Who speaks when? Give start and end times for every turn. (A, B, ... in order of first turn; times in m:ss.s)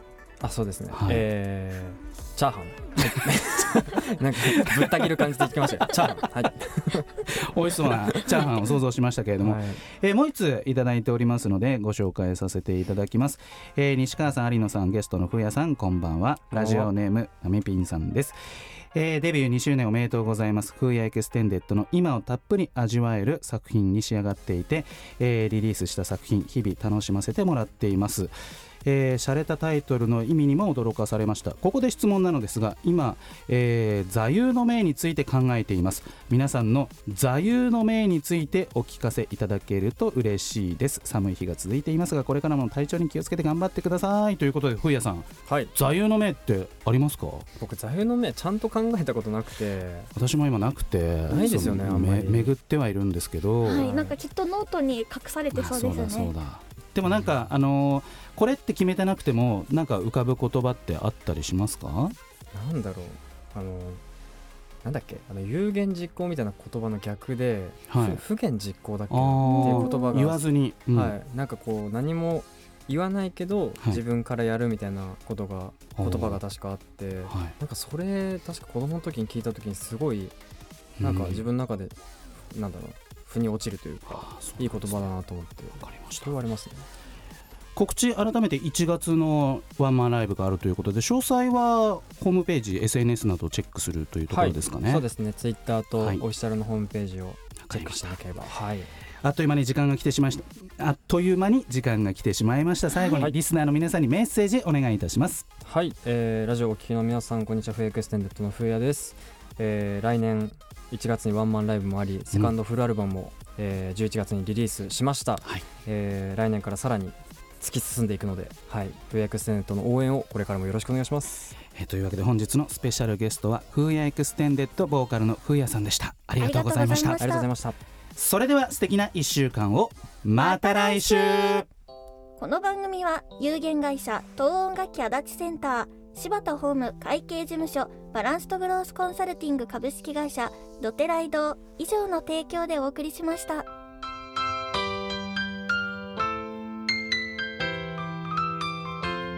0:00.4-0:08.5 A
0:00.9-0:01.3 B
0:04.4-0:05.1 B
0:07.3-0:18.4 B
0:09.4-0:09.8 A
0:16.5-0:16.9 A
0:18.9-0:28.3 B
0:28.8-0:47.5 B
0:45.5-0:45.7 A
0:47.6-0:50.1 A
0:50.2-0:53.9 B
0:51.3-0:52.5 A
0:53.6-0:56.3 C
0:53.7-0:54.2 A
0:55.5-1:02.2 B
1:02.5-1:04.0 A
1:04.8-1:10.4 A
1:07.9-1:08.2 B
1:09.1-1:11.2 B
1:09.4-1:10.2 C
1:10.9-1:20.4 A
1:16.0-1:16.4 B
1:21.0-1:21.5 B
1:21.0-1:22.0 A
1:22.5-1:26.9 A
1:24.1-1:25.1 B
1:25.8-1:26.4 B
1:27.8-1:35.1 B
1:34.3-1:38.9 A
1:36.0-1:36.2 B
1:37.6-1:38.2 B
1:39.2-1:45.4 B
1:42.9-1:43.3 C
1:45.6-2:01.5 A
2:01.7-2:07.2 B
2:06.4-2:07.5 C
2:06.9-2:07.8 A
2:08.2-2:11.6 B
2:10.4-2:11.7 C
2:12.4-2:23.7 C